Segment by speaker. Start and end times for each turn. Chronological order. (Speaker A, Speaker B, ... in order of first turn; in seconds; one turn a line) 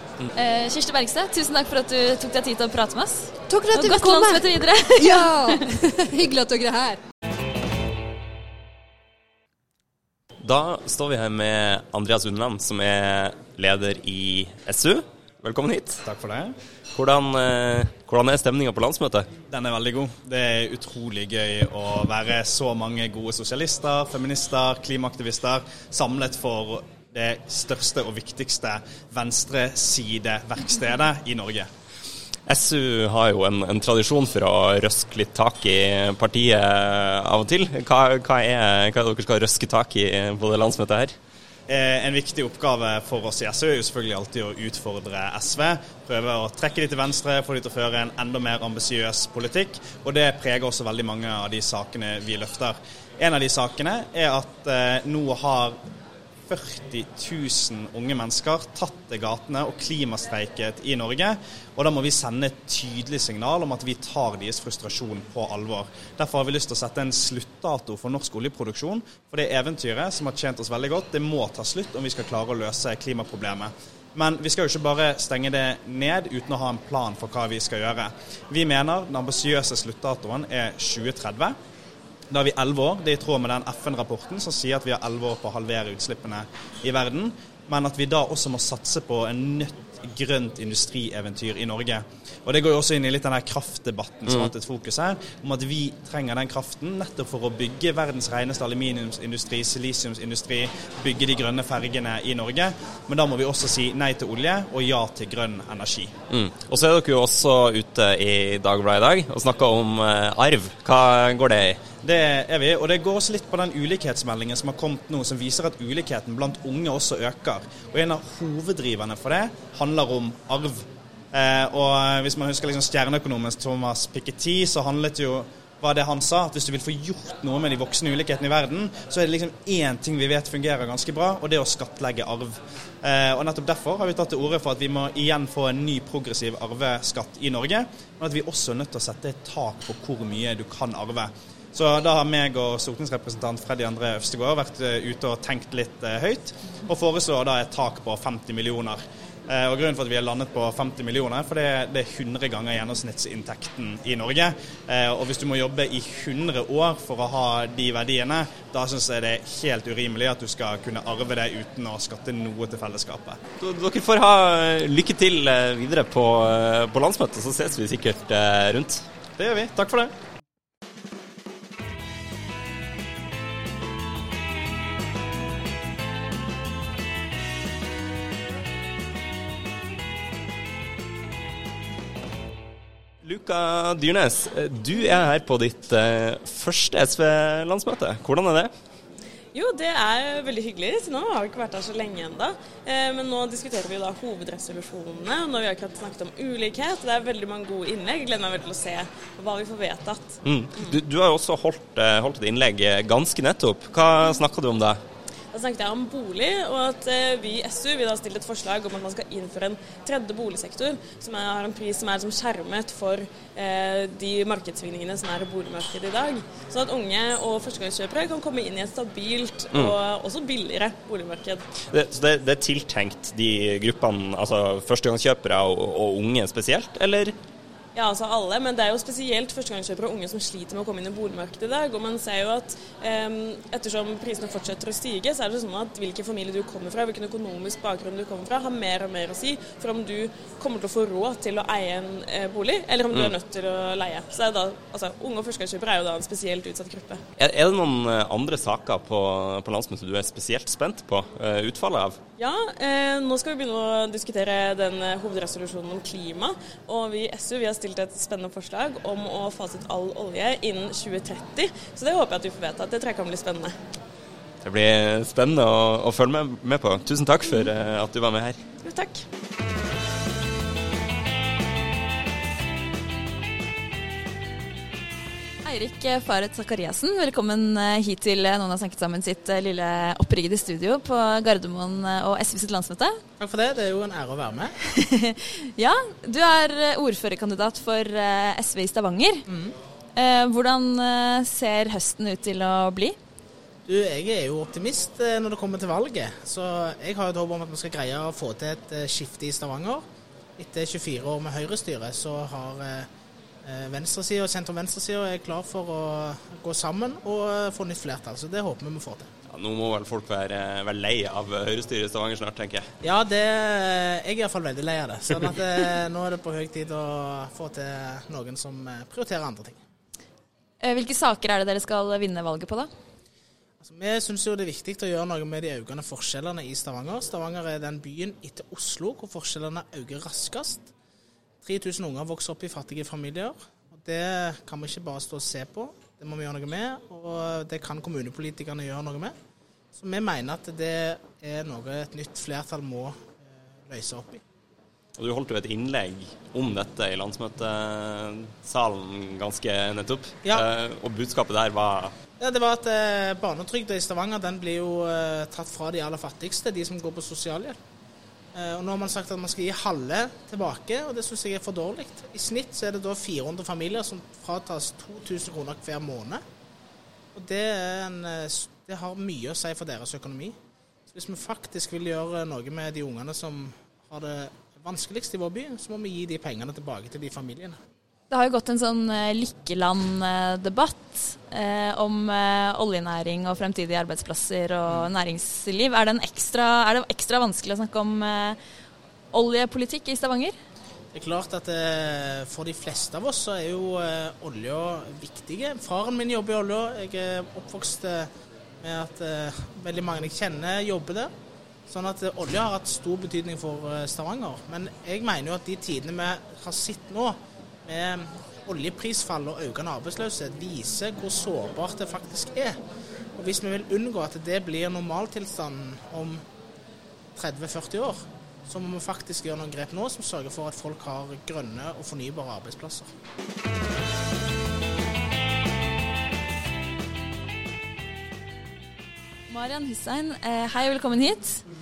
Speaker A: 0.3-5.6
Speaker B: 3.5-4.4
Speaker B: 5.0-7.0
Speaker C: 10.4-16.0
Speaker D: 16.0-16.6
Speaker C: 16.9-19.3
Speaker D: 19.5-31.7
Speaker C: 32.5-41.1
Speaker D: 41.7-55.8
Speaker D: 56.5-81.5
Speaker D: 82.3-106.1
Speaker C: 106.3-111.8
Speaker D: 112.0-163.4
Speaker C: 163.6-169.0
Speaker D: 169.4-170.1
Speaker C: 183.2-188.7
Speaker E: 189.6-200.3
Speaker C: 200.4-205.0
Speaker E: 205.5-221.6
Speaker C: 221.8-227.3
Speaker E: 228.0-247.2
Speaker C: 247.4-252.2
Speaker E: 252.4-263.7
Speaker C: 264.6-268.6
Speaker E: 268.8-269.2
Speaker A: 275.6-283.2
Speaker F: 283.4-284.7
Speaker A: 284.8-289.4
Speaker F: 289.5-289.8
Speaker A: 290.1-293.2
Speaker F: 293.9-300.0
Speaker F: 300.6-303.1
Speaker F: 303.6-309.3
Speaker C: 309.5-312.9
Speaker F: 313.0-319.8
Speaker A: 320.8-322.9
Speaker F: 323.8-330.9
Speaker F: 331.6-339.4
Speaker F: 339.9-344.4
Speaker C: 345.2-352.1
Speaker F: 352.4-357.8
Speaker F: 358.5-366.4
Speaker F: 367.3-370.6
Speaker F: 371.1-377.8
Speaker A: 378.3-388.6
Speaker A: 389.3-390.5
Speaker F: 391.1-401.3
Speaker F: 401.9-412.8
Speaker F: 413.3-416.4
Speaker F: 417.3-423.1
Speaker A: 429.5-431.6